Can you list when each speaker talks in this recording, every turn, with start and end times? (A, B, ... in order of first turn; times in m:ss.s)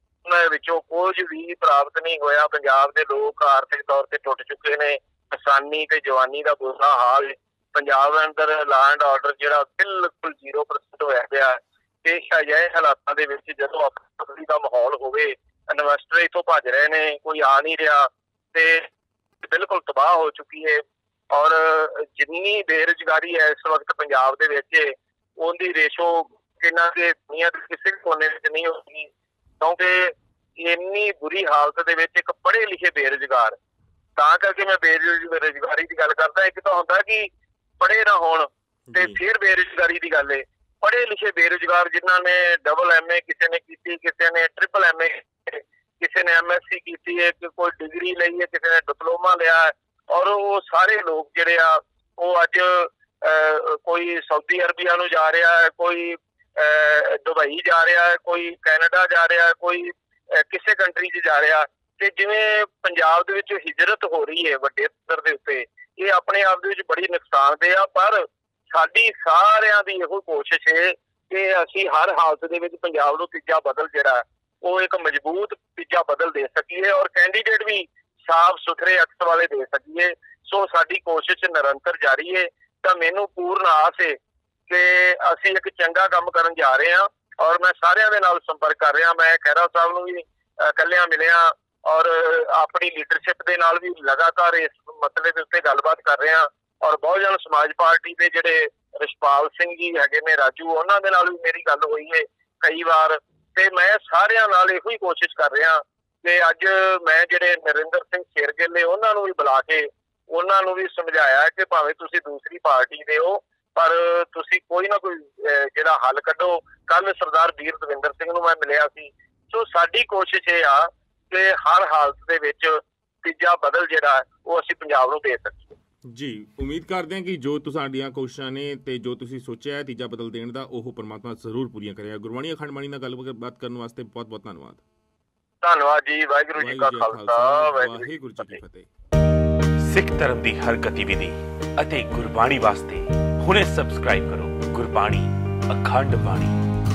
0:00.2-0:18.8 A
0:19.4-0:33.5 A
0:34.2-0:37.3 A
0:37.8-1:24.2 A
0:38.9-0:39.2 B
1:24.7-2:05.8 A
2:06.1-2:14.8 B
2:15.6-2:18.6 A
2:16.6-2:18.9 B
2:19.9-2:26.5 C